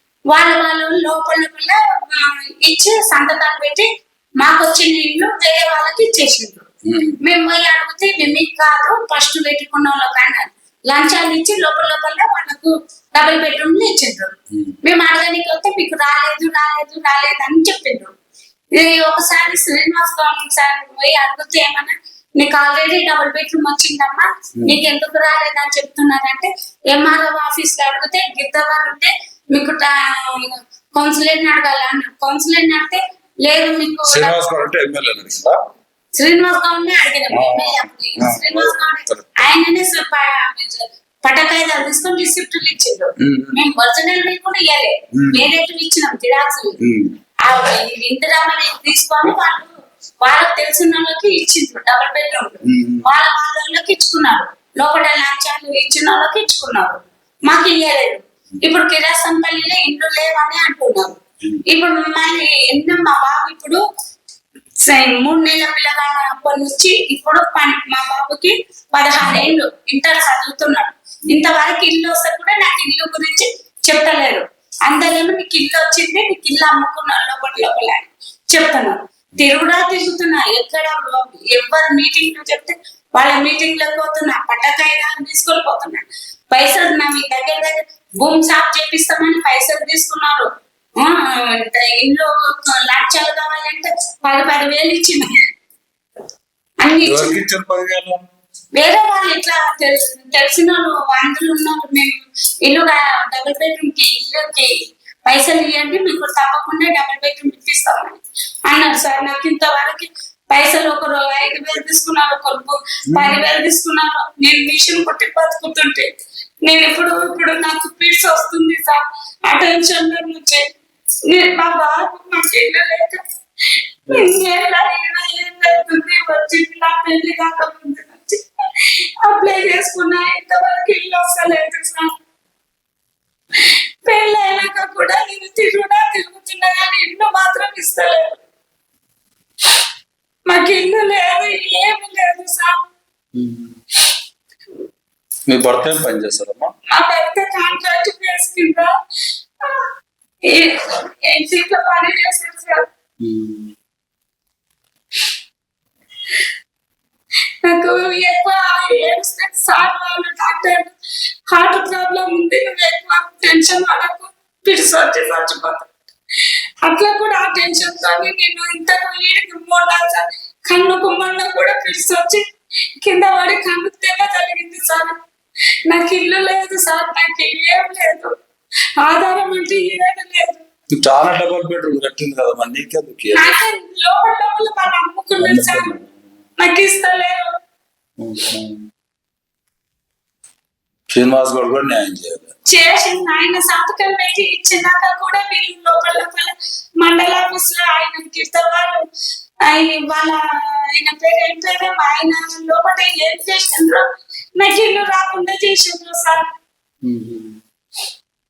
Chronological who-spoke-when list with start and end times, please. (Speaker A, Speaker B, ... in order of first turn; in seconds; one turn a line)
Speaker A: 0.3-3.9
Speaker A: 4.4-6.7
Speaker B: 6.9-7.2
Speaker A: 7.2-18.1
Speaker A: 18.7-34.4
Speaker B: 34.0-35.6
Speaker A: 36.2-46.8
Speaker B: 37.3-39.3
Speaker B: 43.2-43.6
Speaker B: 45.1-45.5
Speaker B: 46.8-47.2
Speaker A: 47.4-63.8
Speaker B: 52.7-53.0
Speaker A: 64.8-90.5
Speaker B: 69.2-69.5
Speaker A: 91.0-95.3
Speaker A: 96.8-97.4
Speaker B: 97.0-98.2
Speaker A: 98.8-104.7
Speaker A: 105.2-116.1
Speaker B: 113.1-113.4
Speaker A: 116.6-120.7
Speaker A: 121.3-123.2
Speaker A: 124.1-128.4
Speaker A: 129.2-132.2
Speaker A: 133.6-138.4
Speaker A: 140.5-142.9
Speaker B: 143.3-143.7
Speaker B: 145.5-146.7
Speaker A: 146.9-148.9
Speaker A: 150.5-152.8
Speaker B: 153.2-153.7
Speaker A: 157.7-160.9
Speaker A: 161.5-165.9
Speaker A: 166.8-172.4
Speaker A: 173.0-175.2
Speaker A: 175.9-178.3
Speaker A: 179.0-180.6
Speaker B: 181.0-183.5
Speaker A: 183.3-185.9
Speaker B: 185.4-186.0
Speaker A: 186.6-187.5
Speaker B: 188.2-188.8
Speaker B: 191.1-192.5
Speaker A: 192.7-199.0
Speaker A: 199.7-200.4
Speaker A: 200.9-204.0
Speaker A: 204.6-206.5
Speaker B: 207.0-207.6